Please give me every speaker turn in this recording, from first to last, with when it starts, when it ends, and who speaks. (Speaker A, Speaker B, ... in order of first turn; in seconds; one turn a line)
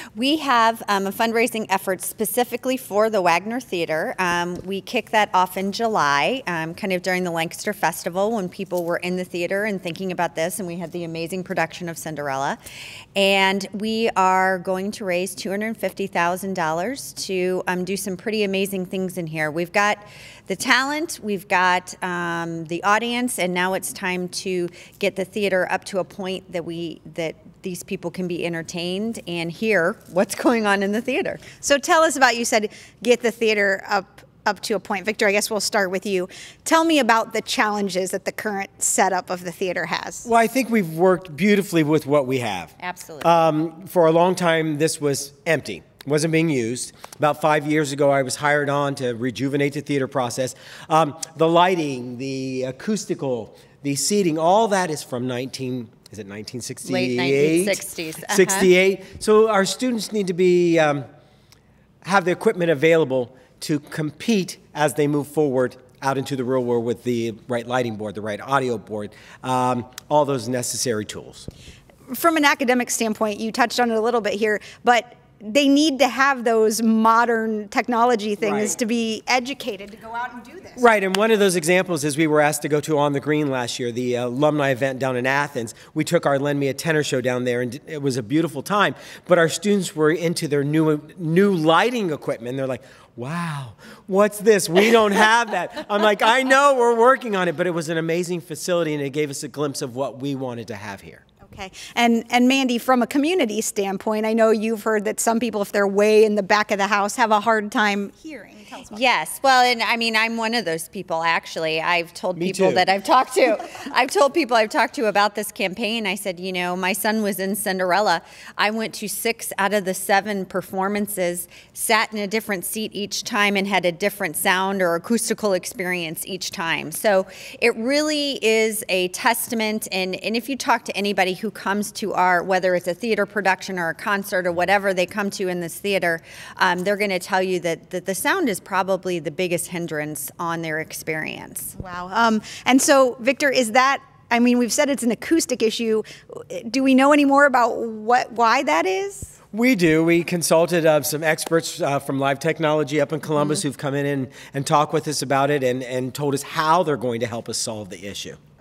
Speaker A: 0.1-12.6
Speaker A: 13.2-31.4
Speaker B: 31.6-40.3
Speaker C: 40.2-61.0
Speaker A: 42.8-43.3
Speaker A: 56.8-58.7
Speaker C: 62.0-71.5
Speaker B: 72.1-80.9
Speaker C: 78.4-78.8
Speaker C: 80.8-101.2
Speaker B: 101.4-109.0
Speaker A: 108.9-141.7
Speaker C: 112.3-112.8
Speaker B: 141.8-149.3
Speaker C: 149.5-158.4